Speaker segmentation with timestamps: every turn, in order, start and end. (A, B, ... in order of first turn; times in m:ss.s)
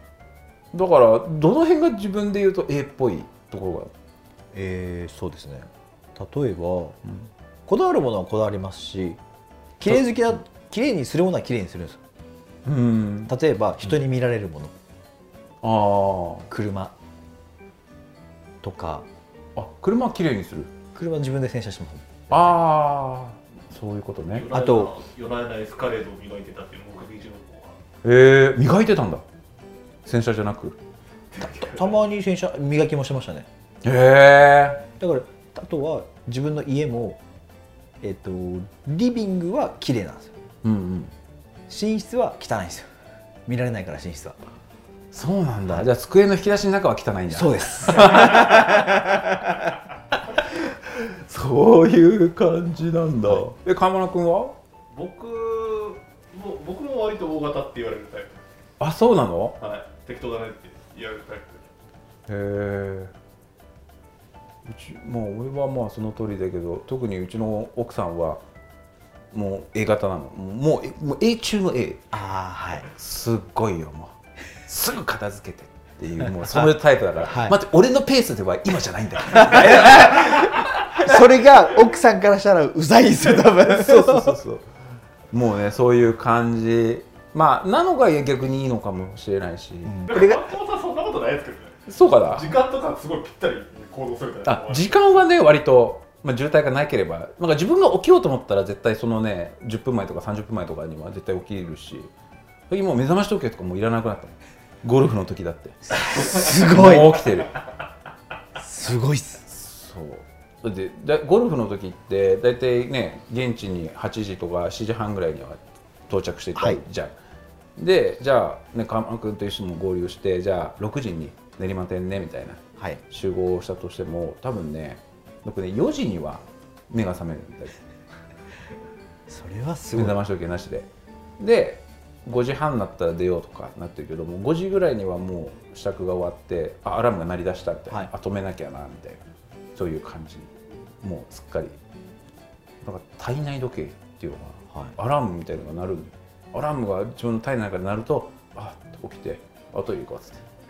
0:00.7-0:03.9 A
0:04.5-0:07.0 B
0:07.7-0:09.2 B
0:09.8-0:12.0 B
0:12.6-0:13.9 A
0:13.3-0:14.7 B
0:15.6-0:16.5 A
0:16.5-0:16.9 B
0:18.6-0:19.0 B
0:19.6-0:20.7 A
0:20.9-0:22.3 B
0:22.3-0:24.5 A
0:24.3-0:27.8 C
0:24.5-0:24.9 B
0:28.0-0:29.2 A
0:30.0-0:30.8 A
0:31.3-0:32.0 C
0:31.4-0:33.5 B
0:33.8-0:34.8 A
0:35.0-0:37.2 B
0:38.0-0:40.3 B
0:40.6-0:41.1 A
0:41.7-0:42.9 B
0:43.4-0:44.4 B
0:45.1-0:49.1 A
0:47.3-0:49.7 B
0:50.9-0:54.6 A
0:54.9-0:58.4 C
0:58.8-0:59.6 A
0:59.6-1:01.7 C
1:02.3-1:03.1 A
1:04.6-1:08.4 A
1:09.3-1:12.1 A
1:12.1-1:12.9 B
1:12.9-1:21.2 A
1:16.2-1:17.6 B
1:19.2-1:24.4 B
1:23.5-1:24.6 A
1:25.3-1:30.0 A
1:29.8-1:30.4 B
1:30.1-1:35.0 C
1:31.9-1:32.5 A
1:34.4-1:42.1 A
1:42.7-1:47.5 A
1:45.9-1:47.2 B
1:48.6-1:49.4 B
1:49.4-1:57.1 A
1:56.6-1:56.8 B
1:57.8-2:07.8 A
2:09.3-2:10.2 B
2:09.9-2:19.2 A
2:19.7-2:21.8 A
2:22.8-2:30.4 A